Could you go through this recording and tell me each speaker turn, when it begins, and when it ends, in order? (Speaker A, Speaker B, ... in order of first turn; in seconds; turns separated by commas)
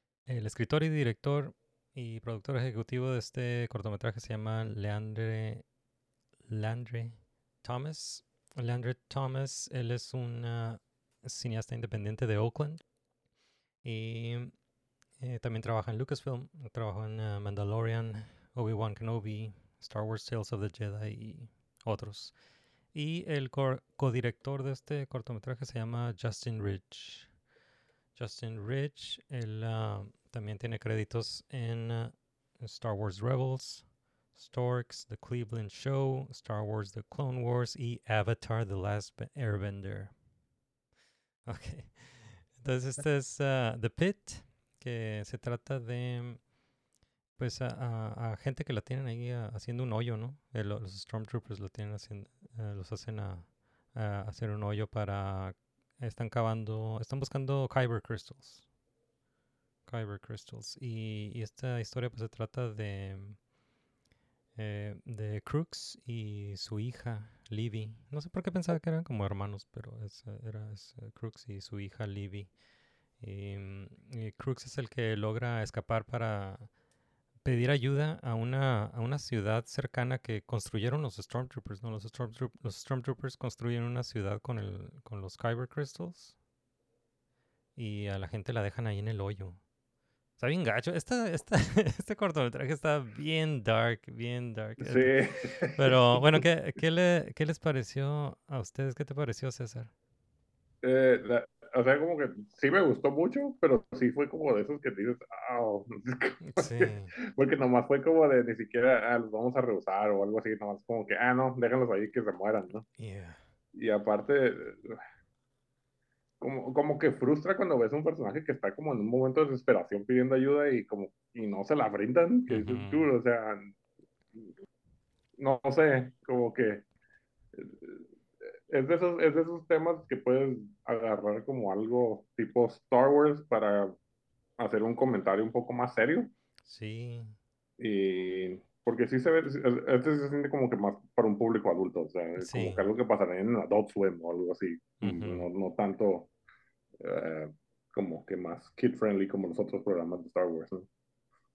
Speaker A: 0.3-5.7, Speaker A: 6.5-12.8, Speaker A: 13.8-14.6, Speaker A: 15.2-22.4, Speaker A: 22.9-27.3, Speaker A: 28.1-40.2, Speaker A: 41.5-46.5, Speaker A: 47.4-58.6, Speaker A: 59.9-63.4, Speaker A: 64.6-72.5, Speaker A: 73.2-76.7, Speaker A: 77.4-86.3, Speaker A: 87.8-89.6, Speaker A: 90.4-95.2, Speaker B: 94.8-96.4, Speaker A: 95.8-99.9, Speaker B: 100.8-112.8, Speaker A: 106.4-107.1, Speaker A: 112.9-113.4, Speaker B: 113.8-115.0, Speaker B: 116.4-123.7, Speaker A: 122.5-123.1, Speaker B: 125.4-126.8, Speaker B: 127.5-128.1, Speaker B: 128.7-133.9, Speaker B: 134.6-136.3, Speaker A: 136.7-137.4, Speaker B: 137.8-146.3, Speaker A: 142.4-142.9, Speaker A: 145.0-145.5, Speaker B: 147.0-150.9